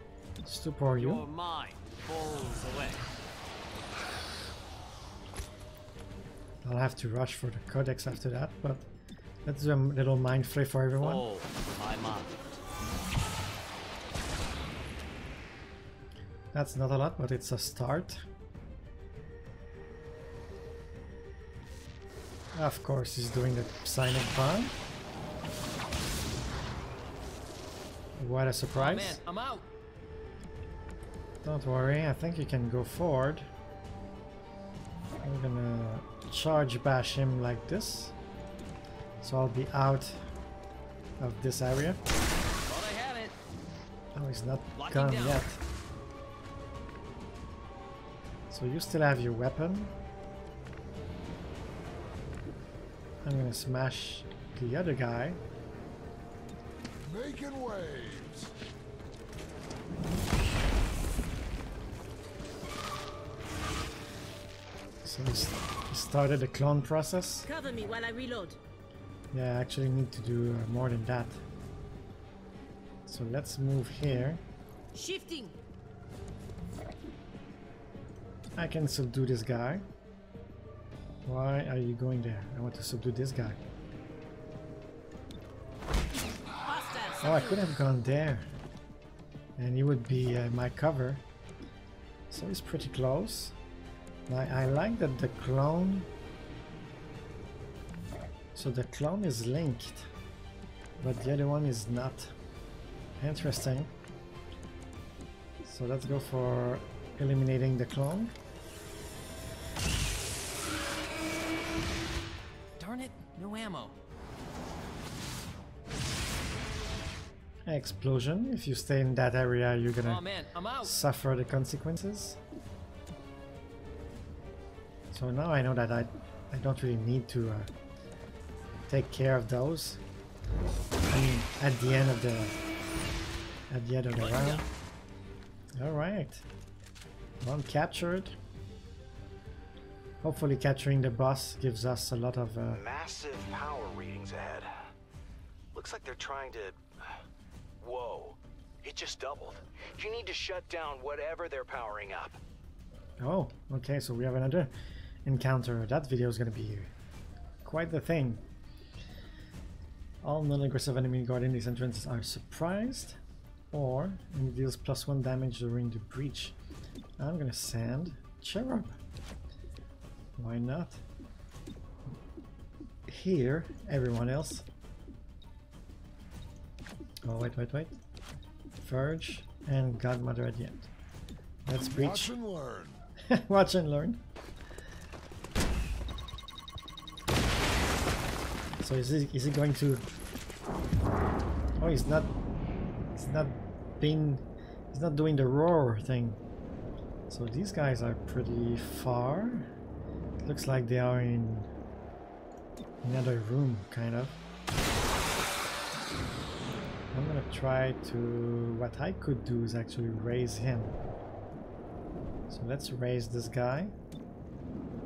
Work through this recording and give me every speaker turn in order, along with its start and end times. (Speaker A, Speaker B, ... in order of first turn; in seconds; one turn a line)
Speaker A: 0.4-1.3
Speaker B: 1.0-3.0
Speaker A: 6.7-8.9
Speaker A: 9.5-11.3
Speaker B: 11.0-12.3
Speaker A: 16.5-18.2
Speaker A: 22.5-24.8
Speaker A: 28.2-29.2
Speaker B: 28.7-29.6
Speaker A: 31.4-33.5
Speaker A: 35.2-38.1
Speaker A: 39.2-40.2
Speaker A: 41.2-42.0
Speaker B: 42.7-43.3
Speaker A: 44.1-45.6
Speaker B: 44.8-45.5
Speaker A: 48.5-50.0
Speaker A: 53.2-55.4
Speaker C: 57.0-58.5
Speaker A: 65.0-67.5
Speaker D: 67.4-68.6
Speaker A: 69.3-71.4
Speaker A: 73.1-74.4
Speaker D: 74.9-75.5
Speaker A: 78.6-79.8
Speaker A: 81.3-83.6
Speaker D: 86.6-87.7
Speaker A: 87.2-88.5
Speaker A: 89.6-91.2
Speaker A: 92.3-93.5
Speaker A: 94.3-96.1
Speaker A: 98.5-100.1
Speaker A: 101.0-102.3
Speaker A: 103.2-103.9
Speaker A: 105.6-108.3
Speaker B: 112.8-114.0
Speaker A: 117.7-120.3
Speaker B: 120.0-121.0
Speaker A: 120.8-122.4
Speaker A: 125.1-127.7
Speaker A: 128.9-130.0
Speaker A: 131.1-132.6
Speaker A: 133.7-134.7
Speaker B: 134.2-134.7
Speaker A: 135.8-136.4
Speaker A: 137.4-138.4
Speaker A: 140.2-142.8
Speaker E: 142.7-144.9
Speaker E: 145.7-147.2
Speaker E: 147.8-152.4
Speaker A: 153.2-154.7
Speaker A: 155.3-156.9
Speaker A: 157.6-158.4
Speaker A: 160.2-163.2
Speaker A: 163.7-166.6
Speaker A: 167.2-169.0
Speaker A: 170.4-171.0
Speaker A: 173.1-174.7
Speaker A: 177.2-178.0
Speaker A: 178.8-180.9
Speaker A: 181.7-182.3
Speaker C: 181.9-183.1
Speaker A: 183.3-184.2
Speaker A: 188.8-190.1
Speaker A: 191.8-192.3
Speaker A: 193.1-196.4
Speaker A: 197.3-199.7
Speaker A: 200.4-201.7
Speaker A: 203.0-204.4
Speaker A: 207.1-211.0
Speaker A: 212.5-213.9